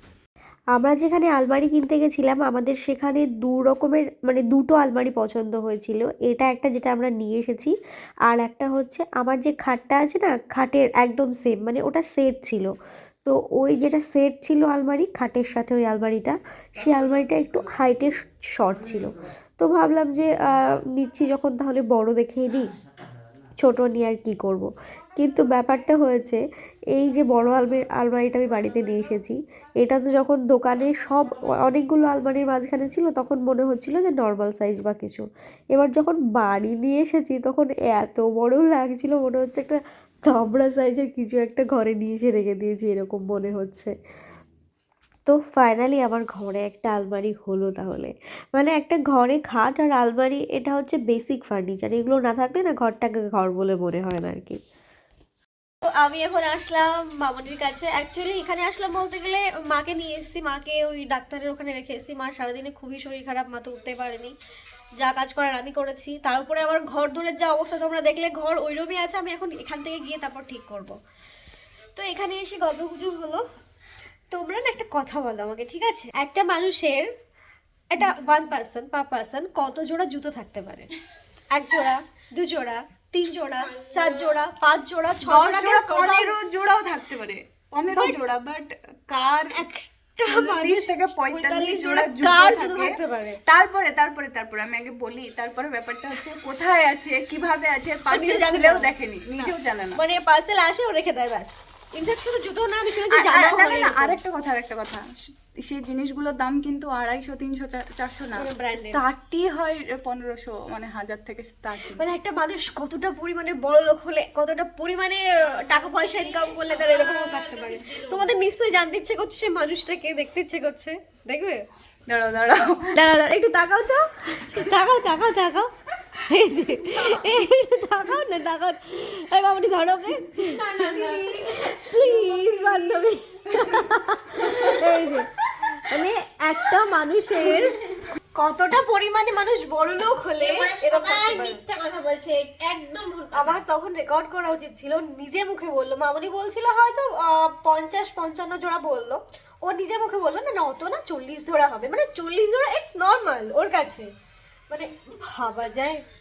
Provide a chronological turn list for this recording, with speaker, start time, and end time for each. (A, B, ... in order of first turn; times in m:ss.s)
0:00.7-0:07.7 A
0:08.3-0:12.7 A
0:13.3-0:22.7 A
0:23.6-0:26.4 A
0:27.0-0:43.9 A
0:45.3-0:54.6 A
0:55.9-1:04.3 B
1:05.0-1:11.0 B
1:12.0-1:13.4 B
1:14.3-1:17.1 B
1:17.9-1:20.9 B
1:21.5-1:26.4 B
1:23.6-1:24.4 C
1:25.2-1:29.7 D
1:29.5-1:33.4 B
1:30.2-1:40.0 D
1:38.1-1:44.2 B
1:43.0-1:52.1 D
1:48.4-1:49.0 B
1:51.9-2:01.6 B
1:55.6-1:58.4 C
2:02.1-2:03.0 D
2:02.9-2:05.7 B
2:06.3-2:15.3 B
2:10.4-2:13.0 C
2:13.6-2:13.9 D
2:14.4-2:15.1 C
2:15.9-2:17.7 B
2:18.4-2:21.6 B
2:20.4-2:23.6 C
2:23.3-2:34.1 B
2:34.7-2:36.0 B